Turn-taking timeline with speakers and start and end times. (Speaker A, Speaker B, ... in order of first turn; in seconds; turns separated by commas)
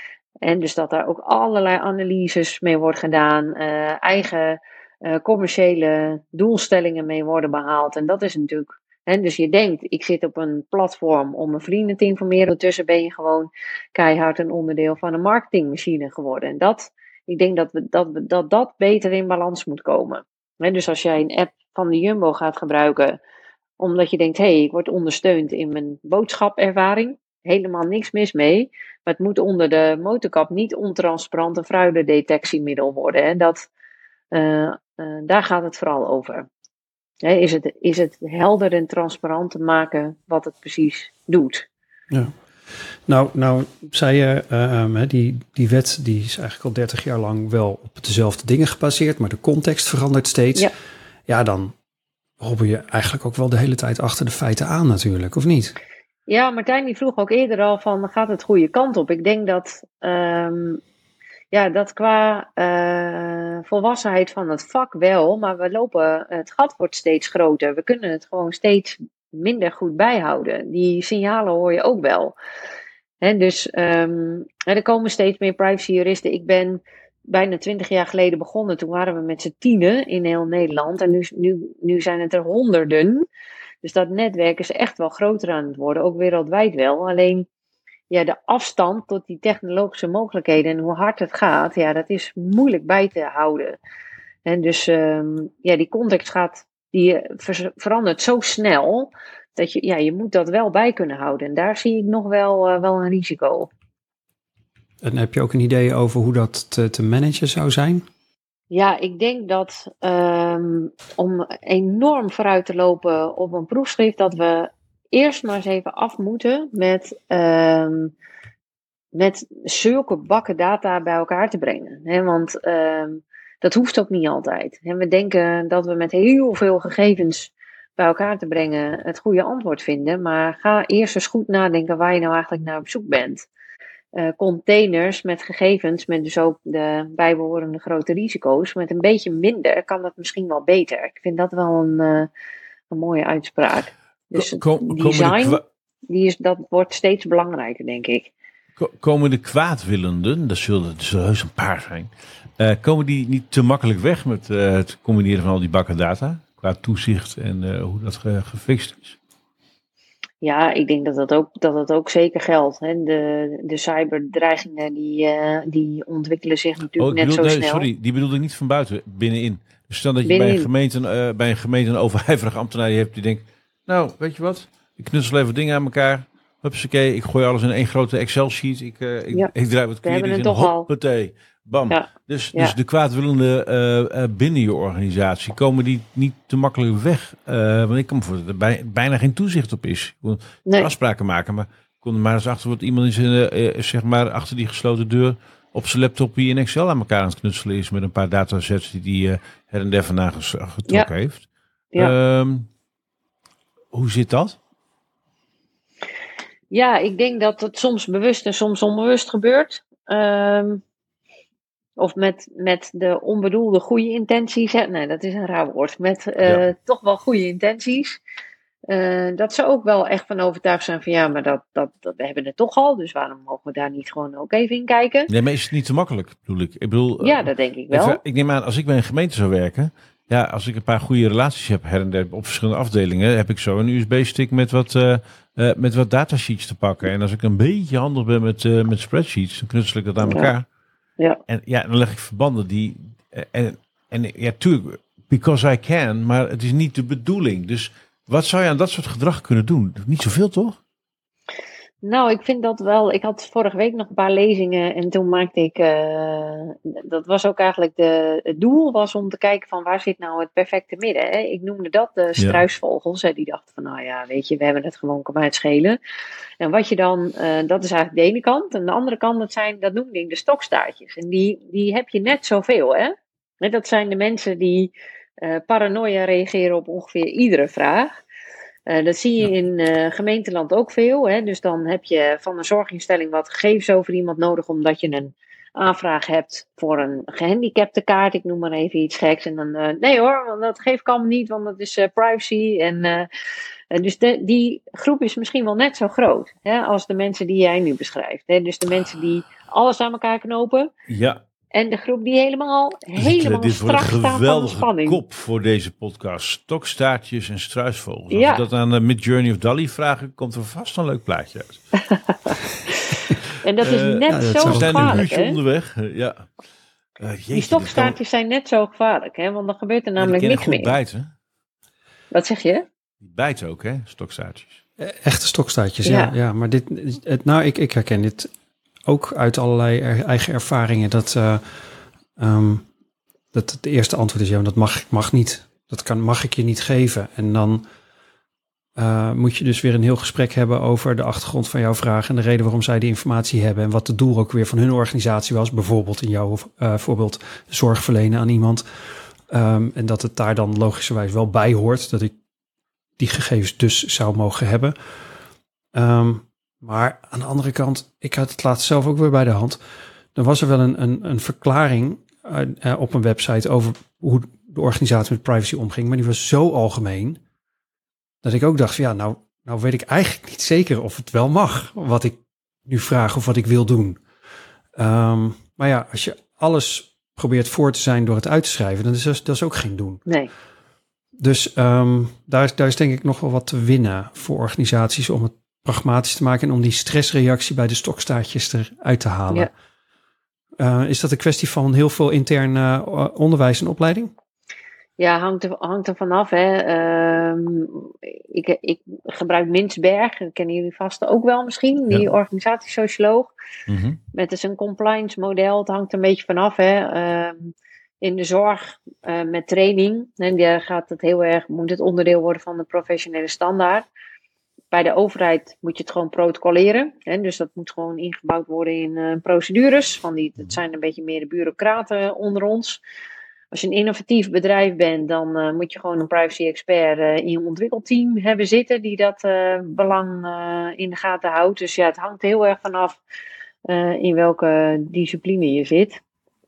Speaker A: 0.4-23.2, Speaker A: 23.8-33.7, Speaker A: 34.3-36.5, Speaker A: 37.2-41.7, Speaker B: 43.0-50.7, Speaker B: 51.3-51.7, Speaker B: 52.4-55.7, Speaker A: 56.3-60.8, Speaker A: 61.5-72.3, Speaker A: 73.2-83.2, Speaker A: 83.8-87.5, Speaker A: 88.1-93.8, Speaker A: 94.4-103.7, Speaker B: 105.0-108.0, Speaker A: 108.7-118.1, Speaker A: 119.1-133.5, Speaker A: 134.1-142.3, Speaker A: 142.9-148.3, Speaker C: 144.3-145.6, Speaker C: 148.8-159.2, Speaker A: 160.4-167.9, Speaker C: 167.0-201.4, Speaker A: 170.2-170.7, Speaker A: 180.0-180.9, Speaker A: 181.9-182.7, Speaker C: 201.9-202.7, Speaker C: 203.9-204.6, Speaker A: 206.7-210.8, Speaker A: 212.0-218.2, Speaker A: 218.9-225.3, Speaker C: 225.3-240.6, Speaker A: 227.2-228.2, Speaker A: 240.2-240.5, Speaker C: 241.5-250.8, Speaker A: 252.0-266.0, Speaker A: 266.6-278.1, Speaker A: 278.9-293.3, Speaker A: 293.9-300.9, Speaker C: 301.1-301.4, Speaker A: 301.7-305.2, Speaker C: 303.2-311.8, Speaker A: 308.3-308.6, Speaker A: 312.1-315.6, Speaker C: 313.8-316.5, Speaker B: 314.3-315.2, Speaker C: 317.2-318.2, Speaker A: 317.5-320.9, Speaker C: 320.2-321.3, Speaker A: 322.3-322.8, Speaker C: 323.2-324.8, Speaker B: 325.0-328.5, Speaker A: 326.0-326.3, Speaker B: 329.0-331.6, Speaker B: 332.4-332.9, Speaker B: 333.5-337.8, Speaker B: 338.9-348.8, Speaker B: 349.5-352.4, Speaker B: 353.2-354.9, Speaker B: 355.9-359.8, Speaker B: 360.3-367.4, Speaker B: 368.4-374.2, Speaker B: 375.0-380.2, Speaker B: 381.4-389.7, Speaker B: 390.8-394.3, Speaker A: 395.2-403.5, Speaker C: 403.9-404.2, Speaker A: 404.3-414.1, Speaker A: 414.9-423.0, Speaker A: 423.7-433.2, Speaker A: 433.9-436.2